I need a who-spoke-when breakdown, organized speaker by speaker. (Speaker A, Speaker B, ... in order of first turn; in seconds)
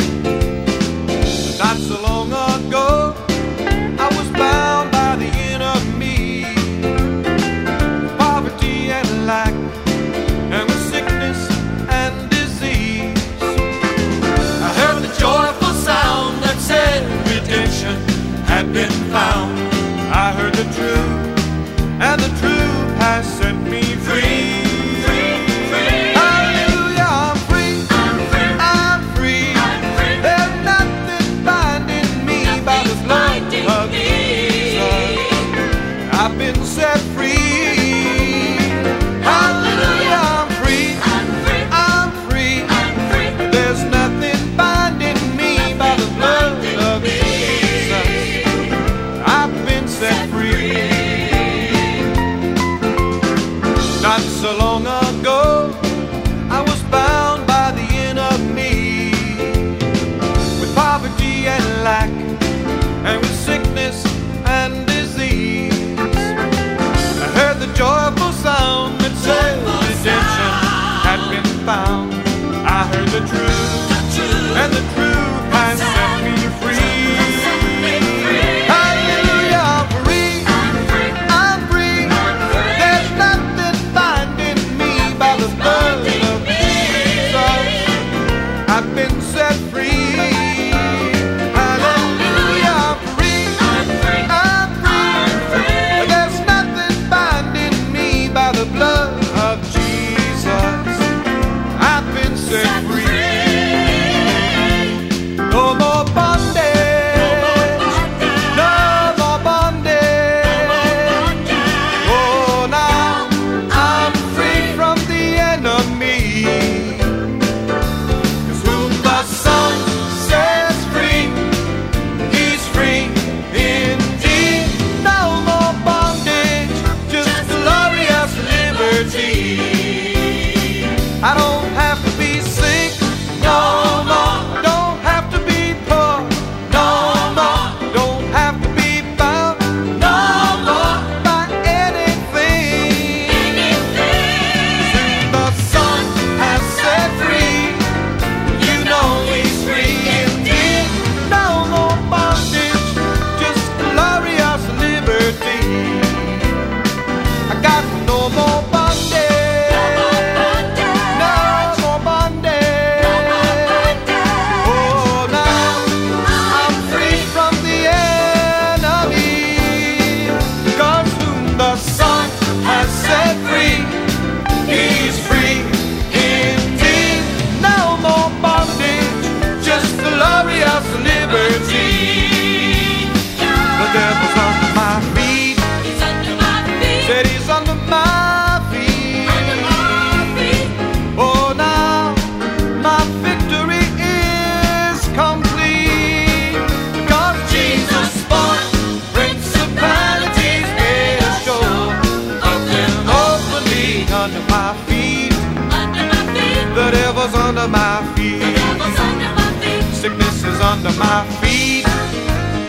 Speaker A: 1.4-7.1, 8.1-9.8, 10.5-13.7, 14.5-51.8, 53.9-60.0, 60.5-66.4, 67.2-117.4, 118.4-156.8, 157.5-212.1